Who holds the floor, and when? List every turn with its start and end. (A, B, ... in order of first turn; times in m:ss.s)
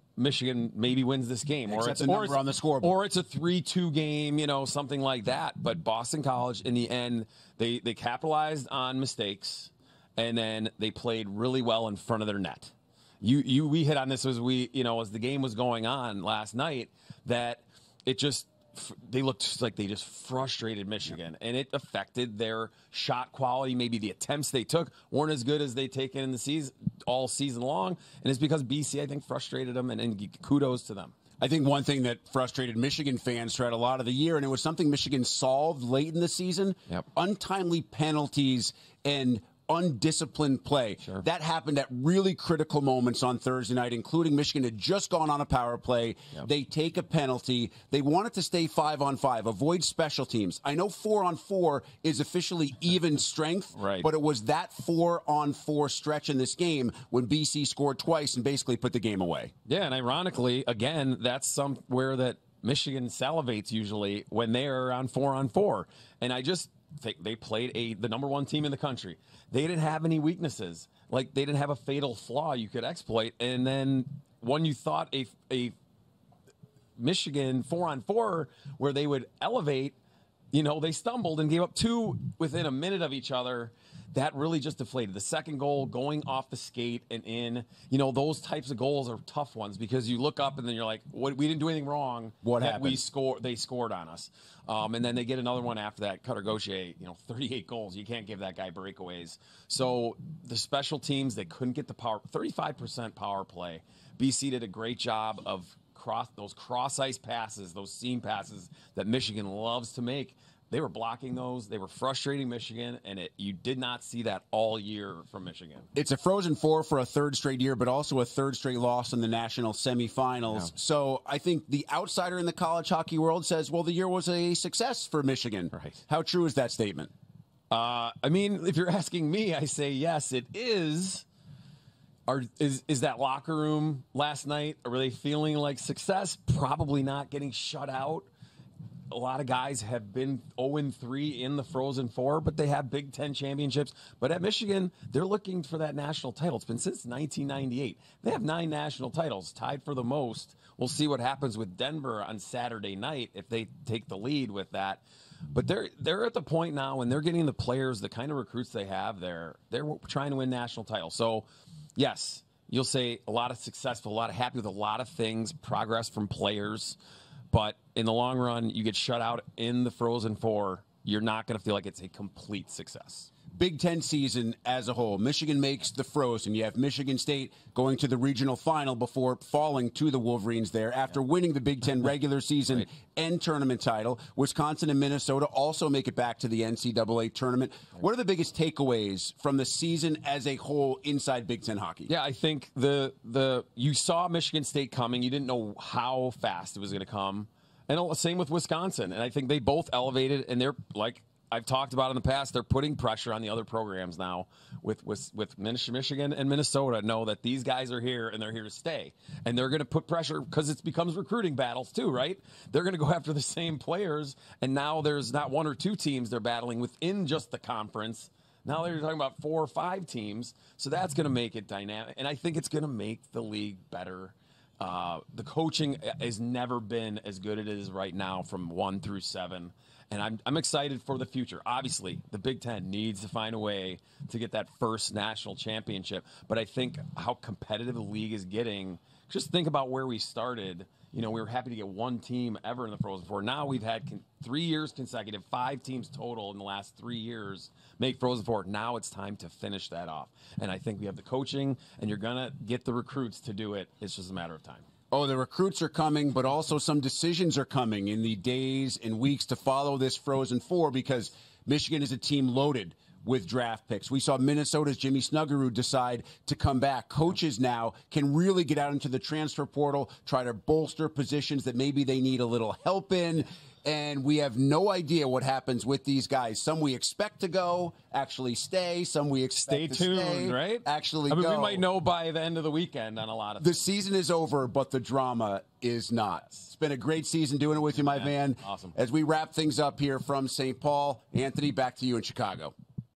0:00.2-0:31.2 A
0:01.7-0:03.0 B
0:31.4-0:59.5 B
0:53.8-0:54.1 A
0:59.7-1:15.7 A
1:17.0-1:20.0 A
1:20.5-1:55.9 A
1:32.4-1:33.0 B
1:56.0-2:07.1 B
2:05.7-2:06.0 A
2:07.7-2:11.2 A
2:12.3-2:18.3 A
2:19.1-2:35.0 A
2:35.5-2:47.0 A
2:47.5-2:53.3 A
2:53.6-3:12.1 B
3:12.1-4:14.9 A
4:15.1-4:41.8 B
4:39.6-4:43.9 A
4:43.6-4:52.7 B
4:48.0-4:48.9 A